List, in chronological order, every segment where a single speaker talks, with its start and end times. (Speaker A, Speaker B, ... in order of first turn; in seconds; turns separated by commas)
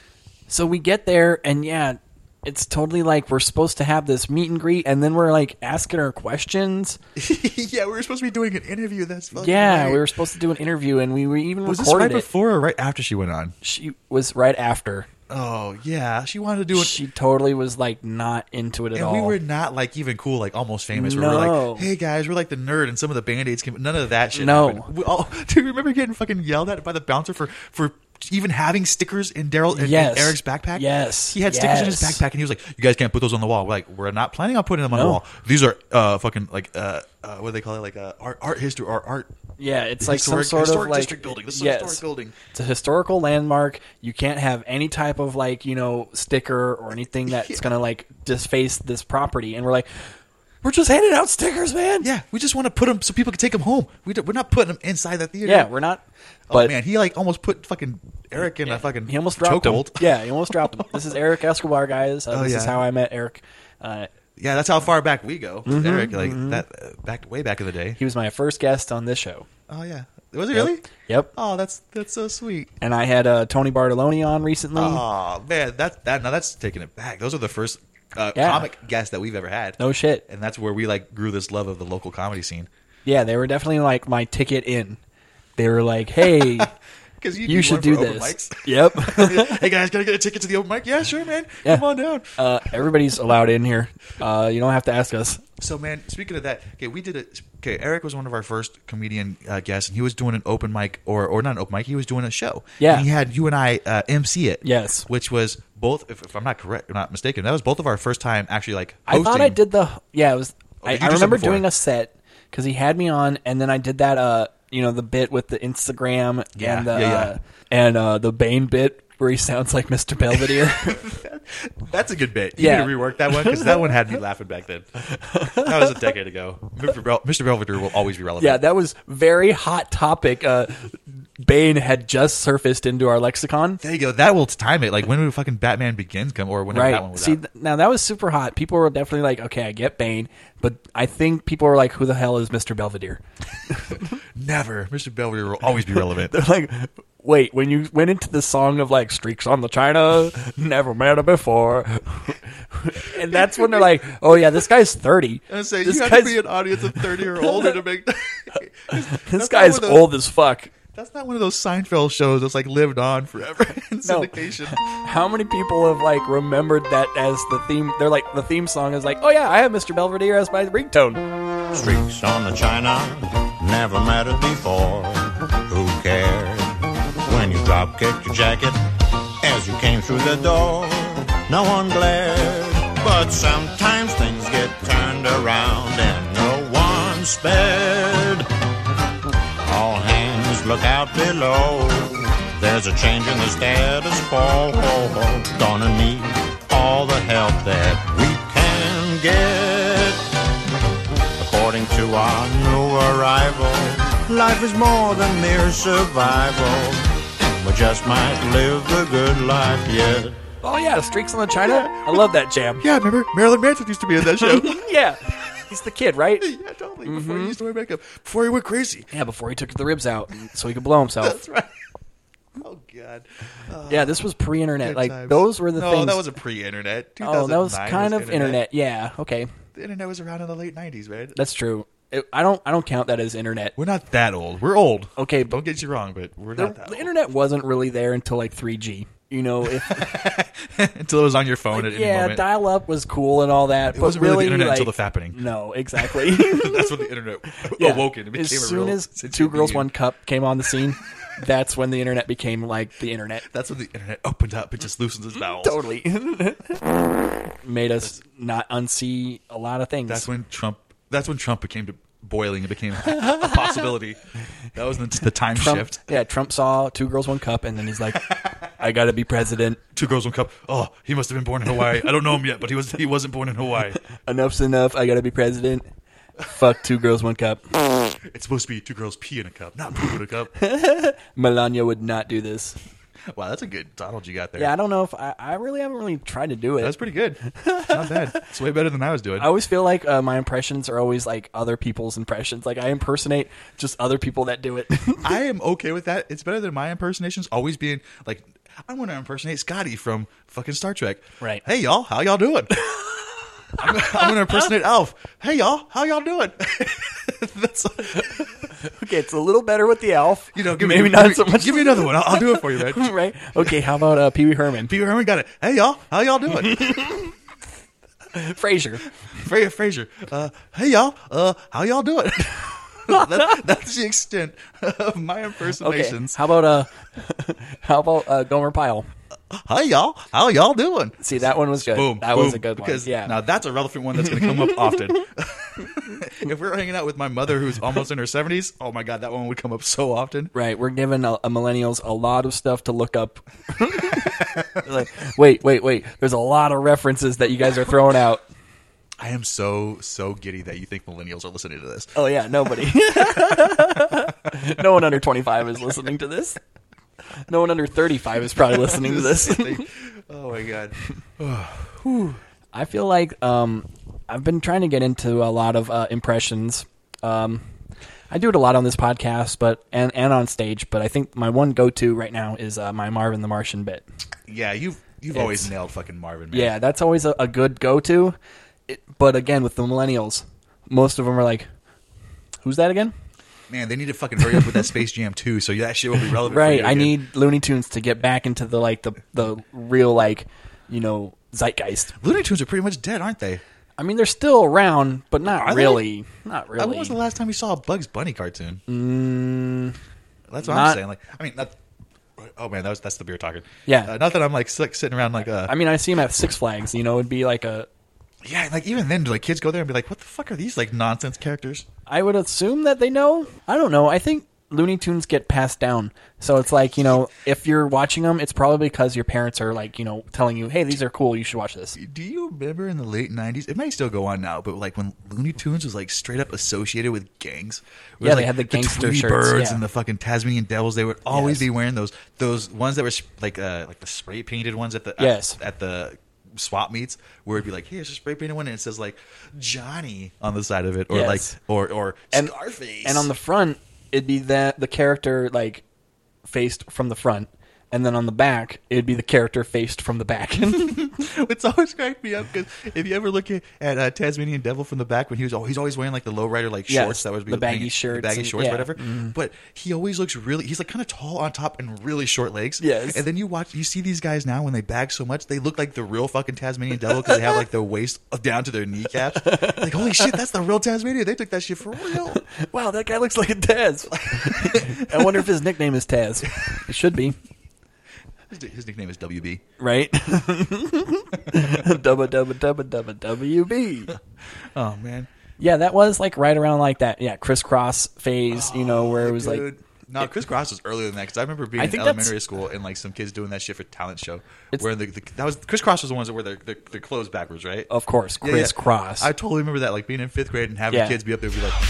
Speaker A: 0.5-7.0, Speaker B: 7.2-10.1, Speaker A: 9.4-12.3, Speaker B: 11.6-13.6, Speaker A: 13.6-15.1, Speaker B: 15.3-17.0, Speaker A: 16.7-19.4, Speaker B: 18.9-39.3, Speaker A: 20.9-21.9, Speaker A: 24.3-24.9, Speaker A: 29.7-32.2, Speaker A: 34.9-35.2, Speaker A: 39.6-50.1, Speaker B: 40.0-42.4, Speaker B: 47.3-47.7, Speaker A: 50.6-52.1, Speaker B: 52.0-55.7, Speaker A: 55.5-56.7, Speaker B: 56.5-61.0, Speaker A: 58.6-64.1, Speaker B: 62.3-62.8, Speaker B: 64.4-68.0, Speaker A: 65.7-66.6, Speaker A: 68.0-69.5, Speaker B: 69.7-72.7, Speaker A: 70.5-71.3, Speaker A: 72.8-75.0, Speaker B: 74.8-82.7, Speaker A: 78.4-78.7, Speaker A: 79.8-80.2, Speaker A: 83.0-85.0, Speaker A: 85.6-86.7, Speaker B: 86.2-92.3, Speaker A: 87.5-89.7, Speaker A: 92.4-95.4, Speaker B: 95.6-109.6, Speaker A: 102.8-103.1, Speaker A: 104.6-105.1, Speaker A: 109.1-121.0, Speaker B: 110.8-111.7, Speaker B: 116.6-117.3, Speaker B: 120.3-128.6, Speaker A: 122.6-124.0, Speaker A: 125.2-126.0, Speaker A: 128.4-133.8, Speaker B: 133.8-137.4, Speaker A: 136.7-144.1, Speaker B: 144.4-146.3, Speaker A: 145.9-157.8, Speaker B: 153.1-154.6, Speaker B: 155.5-160.2, Speaker A: 158.9-160.7, Speaker B: 160.9-164.8, Speaker A: 164.0-171.2, Speaker C: 171.7-178.8, Speaker C: 179.4-188.5, Speaker C: 189.6-200.2, Speaker C: 201.4-210.4, Speaker A: 210.6-212.8, Speaker B: 211.6-212.2, Speaker B: 212.8-214.8, Speaker A: 214.2-216.5, Speaker B: 216.4-219.1, Speaker A: 217.1-217.6, Speaker A: 219.1-221.4, Speaker B: 221.2-221.7, Speaker B: 222.6-224.2, Speaker A: 223.9-226.3, Speaker B: 224.8-228.6, Speaker A: 227.2-229.5, Speaker B: 229.8-231.4, Speaker A: 231.3-233.7, Speaker B: 233.8-237.1, Speaker A: 235.2-235.6, Speaker A: 236.6-240.1, Speaker B: 239.8-242.4, Speaker A: 241.7-247.0, Speaker B: 243.9-245.4, Speaker B: 246.0-249.9, Speaker A: 247.6-253.5, Speaker B: 253.5-255.8, Speaker A: 255.6-256.9, Speaker A: 257.6-260.3, Speaker B: 260.1-264.2, Speaker B: 264.7-266.1, Speaker A: 265.5-269.8, Speaker B: 268.1-268.7, Speaker B: 269.9-274.0, Speaker A: 274.1-275.9, Speaker A: 276.4-277.6, Speaker B: 278.2-280.5, Speaker A: 280.6-282.8, Speaker B: 283.3-284.7, Speaker A: 284.6-287.0, Speaker B: 286.8-289.5, Speaker A: 287.5-288.4, Speaker A: 289.4-295.3, Speaker B: 295.2-302.8, Speaker A: 302.9-303.2, Speaker A: 303.8-304.5, Speaker B: 303.8-308.6, Speaker A: 308.1-314.9, Speaker B: 310.5-313.7, Speaker B: 314.9-317.1, Speaker A: 316.6-317.3, Speaker A: 318.3-319.0, Speaker B: 319.3-326.4, Speaker A: 325.8-329.1, Speaker B: 329.5-340.5, Speaker A: 331.2-333.4, Speaker A: 334.3-335.0, Speaker A: 340.5-348.4, Speaker B: 344.2-344.7, Speaker B: 349.2-352.1, Speaker A: 352.2-356.6, Speaker B: 353.4-354.8, Speaker A: 357.5-359.9, Speaker B: 358.6-362.4, Speaker A: 362.7-367.6, Speaker A: 368.3-374.1, Speaker B: 374.5-376.8, Speaker A: 375.3-375.7, Speaker A: 376.5-378.4, Speaker A: 378.9-381.7, Speaker A: 382.6-383.1, Speaker B: 383.7-387.2, Speaker A: 386.5-392.1, Speaker B: 392.2-393.6, Speaker A: 394.0-397.2, Speaker B: 395.5-396.1, Speaker B: 396.8-398.8, Speaker A: 398.9-400.0, Speaker B: 400.5-401.8, Speaker A: 400.6-401.0, Speaker B: 402.4-405.7, Speaker A: 403.9-404.1, Speaker A: 405.6-407.9, Speaker B: 408.4-411.9, Speaker A: 412.1-422.0, Speaker B: 422.0-443.3, Speaker A: 428.2-429.8, Speaker A: 431.3-431.6, Speaker A: 435.2-435.6, Speaker A: 441.1-441.6, Speaker A: 443.0-445.8, Speaker A: 446.4-451.1, Speaker B: 450.7-472.4, Speaker A: 456.9-459.3, Speaker A: 462.8-463.2, Speaker A: 469.4-470.4, Speaker A: 472.5-477.4, Speaker B: 474.1-475.4, Speaker B: 478.5-479.6, Speaker A: 479.8-484.1, Speaker B: 481.5-481.9, Speaker B: 484.8-485.3, Speaker A: 485.6-489.7, Speaker B: 488.5-497.9, Speaker A: 491.8-492.4, Speaker A: 497.9-499.3, Speaker B: 498.4-501.8, Speaker A: 500.9-501.2